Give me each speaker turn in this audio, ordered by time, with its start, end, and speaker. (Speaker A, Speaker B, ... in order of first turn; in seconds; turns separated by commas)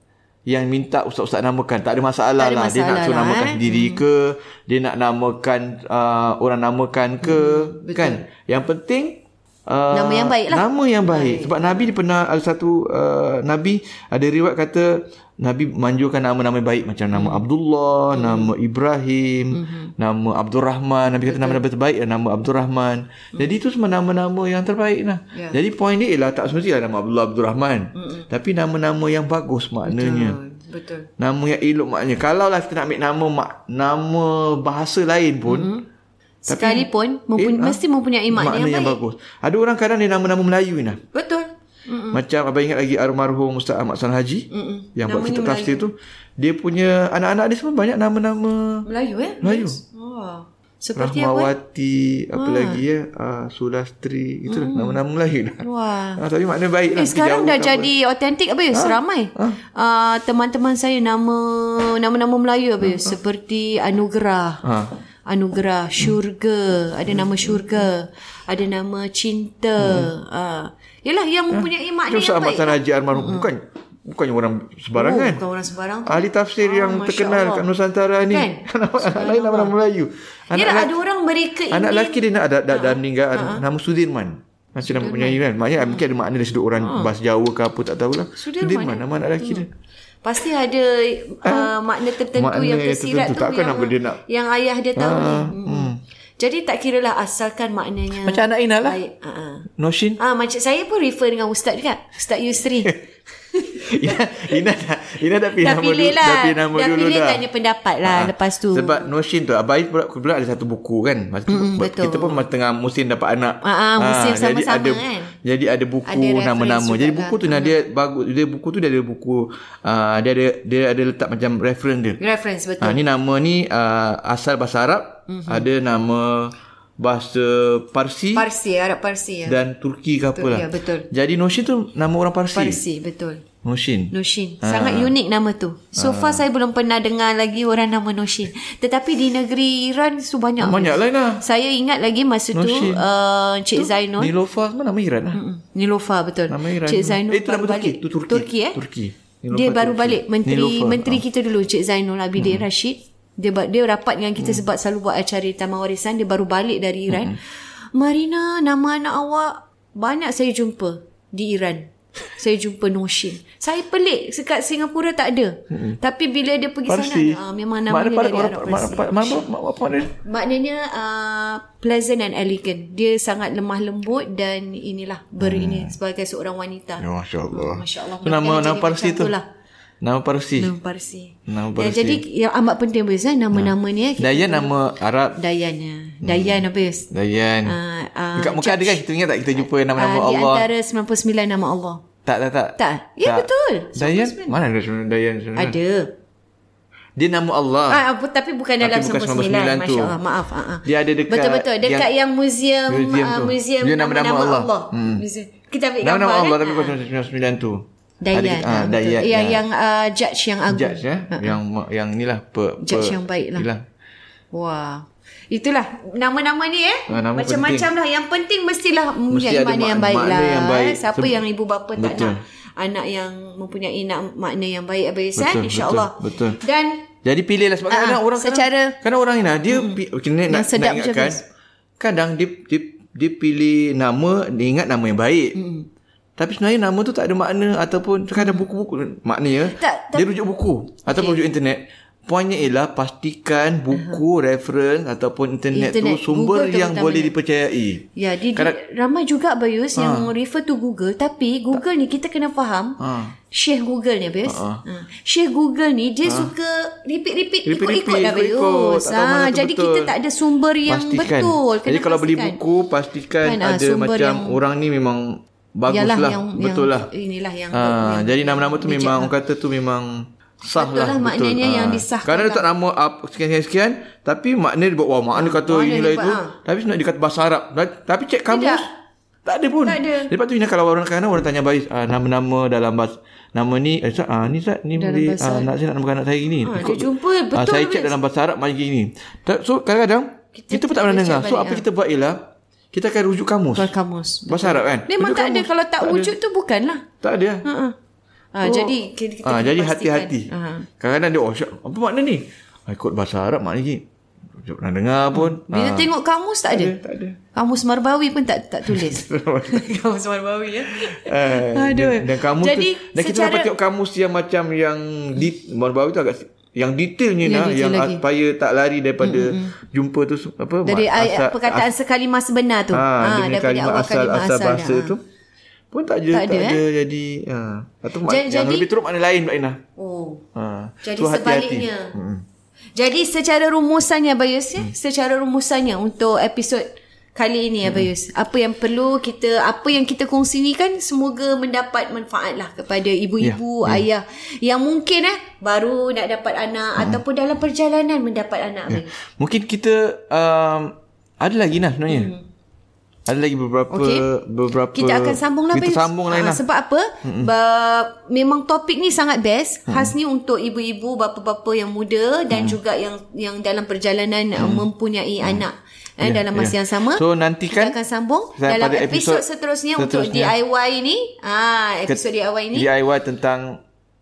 Speaker A: 0.5-30.4, Speaker B: 2.4-4.0, Speaker B: 7.2-8.2, Speaker B: 9.9-11.9, Speaker B: 17.1-17.4, Speaker B: 18.1-18.5, Speaker B: 19.5-19.9, Speaker B: 21.3-21.6, Speaker B: 25.3-25.6, Speaker B: 27.9-28.3, Speaker B: 29.8-31.1, Speaker A: 31.2-35.7, Speaker B: 35.5-35.9, Speaker B: 36.4-39.0, Speaker A: 36.5-41.0, Speaker B: 41.1-42.2, Speaker A: 42.1-48.9, Speaker B: 44.5-45.8, Speaker B: 48.8-51.5, Speaker A: 49.4-49.8, Speaker A: 51.0-55.6, Speaker B: 52.3-52.8, Speaker B: 54.5-55.0, Speaker B: 55.6-56.2, Speaker A: 56.2-57.9, Speaker B: 56.9-64.6, Speaker A: 58.7-59.6, Speaker A: 62.8-63.1, Speaker A: 64.6-64.9, Speaker B: 65.2-73.5, Speaker A: 67.1-67.6, Speaker A: 69.8-70.1, Speaker A: 71.5-75.4, Speaker B: 74.9-77.7, Speaker A: 76.0-81.0, Speaker B: 78.3-79.7, Speaker B: 80.5-83.6, Speaker A: 81.7-89.7, Speaker B: 84.8-86.0, Speaker B: 86.8-87.1, Speaker B: 88.3-89.7, Speaker B: 90.2-99.7, Speaker A: 91.4-94.2, Speaker A: 95.0-96.0, Speaker A: 98.1-99.0, Speaker A: 99.8-100.2, Speaker B: 100.2-103.0, Speaker B: 103.5-104.6, Speaker A: 103.7-107.4, Speaker B: 105.6-109.1, Speaker A: 108.0-122.2, Speaker B: 111.5-112.4, Speaker B: 113.6-115.3, Speaker B: 116.0-117.8, Speaker B: 122.2-123.0, Speaker A: 122.8-128.5, Speaker B: 125.3-125.7, Speaker B: 128.3-129.6, Speaker A: 129.4-132.8, Speaker B: 130.3-131.1, Speaker B: 132.5-133.4, Speaker A: 133.6-135.1, Speaker B: 134.1-144.3, Speaker A: 135.9-136.4, Speaker A: 140.6-141.4, Speaker A: 142.5-143.0, Speaker A: 143.7-145.4, Speaker B: 145.3-148.8, Speaker A: 146.5-151.2, Speaker B: 149.5-169.5, Speaker A: 152.4-152.6, Speaker A: 157.1-157.3, Speaker A: 165.7-166.0, Speaker A: 166.9-170.2, Speaker B: 170.2-179.4, Speaker A: 175.4-175.9, Speaker A: 177.0-179.3, Speaker A: 180.0-180.7, Speaker B: 180.6-184.7, Speaker A: 181.5-182.2, Speaker A: 183.5-185.4, Speaker B: 185.3-187.1, Speaker A: 186.2-187.8, Speaker B: 187.6-189.0, Speaker A: 188.3-190.7, Speaker B: 189.9-192.0, Speaker A: 192.2-195.8, Speaker B: 192.8-194.6, Speaker B: 195.6-196.1, Speaker A: 197.2-198.0, Speaker B: 197.9-206.9, Speaker A: 198.8-200.2, Speaker A: 200.8-202.1, Speaker A: 202.9-205.2, Speaker A: 206.0-209.6, Speaker B: 208.2-211.6, Speaker A: 210.7-213.8, Speaker B: 212.8-213.7, Speaker B: 214.5-227.1, Speaker A: 217.1-217.9, Speaker A: 219.3-221.4, Speaker A: 221.9-222.4, Speaker A: 225.4-226.6, Speaker A: 227.2-231.4, Speaker B: 227.9-229.0, Speaker B: 229.7-231.4, Speaker A: 232.0-235.6, Speaker B: 235.5-235.9, Speaker A: 236.4-248.8, Speaker B: 238.4-238.6, Speaker B: 239.7-240.3, Speaker B: 241.1-241.4, Speaker B: 243.9-244.2, Speaker B: 245.7-247.3, Speaker B: 248.2-262.6, Speaker A: 249.9-250.3, Speaker A: 253.0-253.3, Speaker A: 254.4-254.8, Speaker A: 256.2-256.5, Speaker A: 257.6-260.1, Speaker A: 260.8-267.1, Speaker B: 263.4-264.6, Speaker B: 265.9-269.3, Speaker A: 267.7-278.9, Speaker B: 270.7-272.6, Speaker B: 275.3-276.5, Speaker B: 278.5-278.9, Speaker A: 279.4-293.9, Speaker B: 279.8-280.3, Speaker B: 284.9-285.7, Speaker B: 286.6-288.1, Speaker B: 290.5-291.8, Speaker B: 293.7-297.1, Speaker A: 294.5-296.3, Speaker A: 297.2-297.6, Speaker B: 297.6-297.9, Speaker B: 298.5-300.9, Speaker A: 298.6-306.1, Speaker B: 305.3-306.9, Speaker A: 306.7-307.4, Speaker B: 307.5-313.7, Speaker A: 308.9-310.1, Speaker A: 310.8-321.9, Speaker B: 317.4-318.2, Speaker B: 319.2-319.8, Speaker B: 320.8-325.1, Speaker A: 322.9-325.2, Speaker A: 325.9-329.8, Speaker B: 326.3-326.8, Speaker B: 328.2-328.9, Speaker B: 330.0-330.4, Speaker A: 330.5-332.4, Speaker B: 331.0-332.2, Speaker B: 332.9-349.1, Speaker A: 337.8-338.1, Speaker A: 343.4-344.1, Speaker A: 348.9-352.3, Speaker B: 352.1-352.4, Speaker A: 353.2-356.6, Speaker B: 353.9-354.2, Speaker B: 354.9-372.9, Speaker A: 357.2-357.5, Speaker A: 359.9-360.1, Speaker A: 362.5-362.8, Speaker A: 364.6-364.9, Speaker A: 366.2-368.0, Speaker A: 368.6-369.4, Speaker A: 370.0-370.5, Speaker A: 372.1-373.8